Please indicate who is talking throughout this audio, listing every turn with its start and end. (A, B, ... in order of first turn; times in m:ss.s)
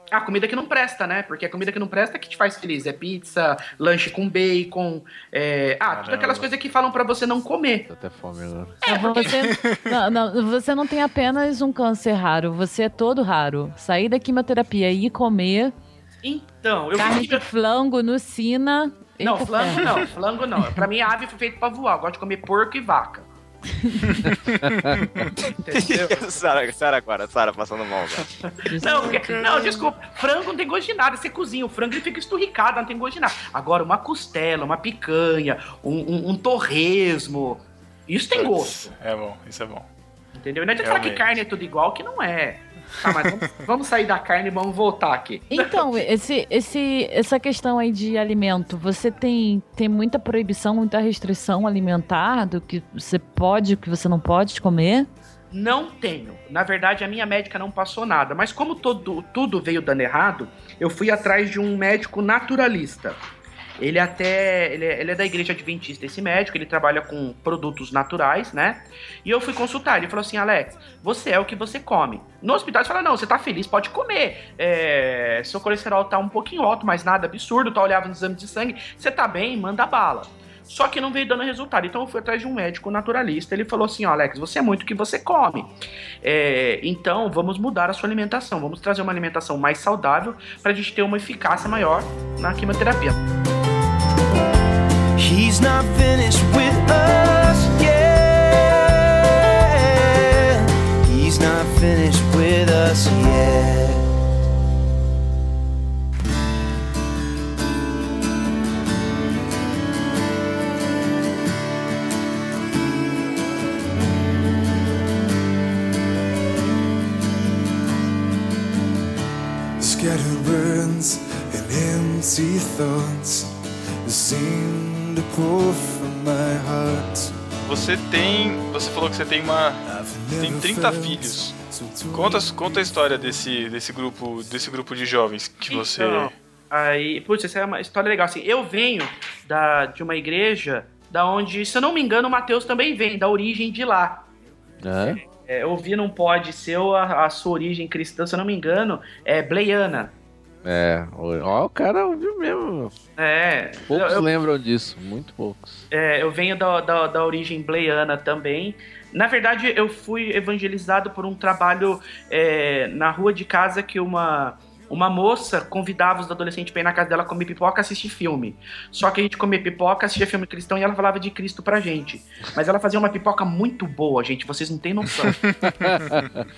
0:00.1-0:07.9 A
0:05.9-0:06.5 B
0:07.9-0:08.8 C
0:08.9-0:15.7 D
0:08.9-0:09.4 A
0:16.2-0:17.4 A
0:17.0-0:20.0 D
0:19.2-0:23.3 A
0:25.4-0:26.4 A
0:25.7-0:28.3 E
0:28.7-0:29.4 D
0:28.8-0:38.9 A
0:38.3-0:39.9 B
0:40.4-0:46.1 A
0:40.8-0:41.3 B
0:45.5-0:55.1 D
0:55.5-1:03.2 A
1:03.8-1:25.7 A
1:26.2-1:33.2 A
1:35.2-1:44.0 F
1:59.8-2:03.5 F
2:04.0-2:07.4 F
2:07.6-2:11.6 B
2:09.9-2:12.9 F
2:12.1-2:16.3 B
2:15.7-2:24.3 A
2:24.8-2:25.2 C
2:25.0-2:30.1 A
2:30.6-2:33.0 C
2:33.2-2:34.3 A
2:33.9-2:35.9 C
2:35.9-2:55.5 A
2:55.9-2:56.2 C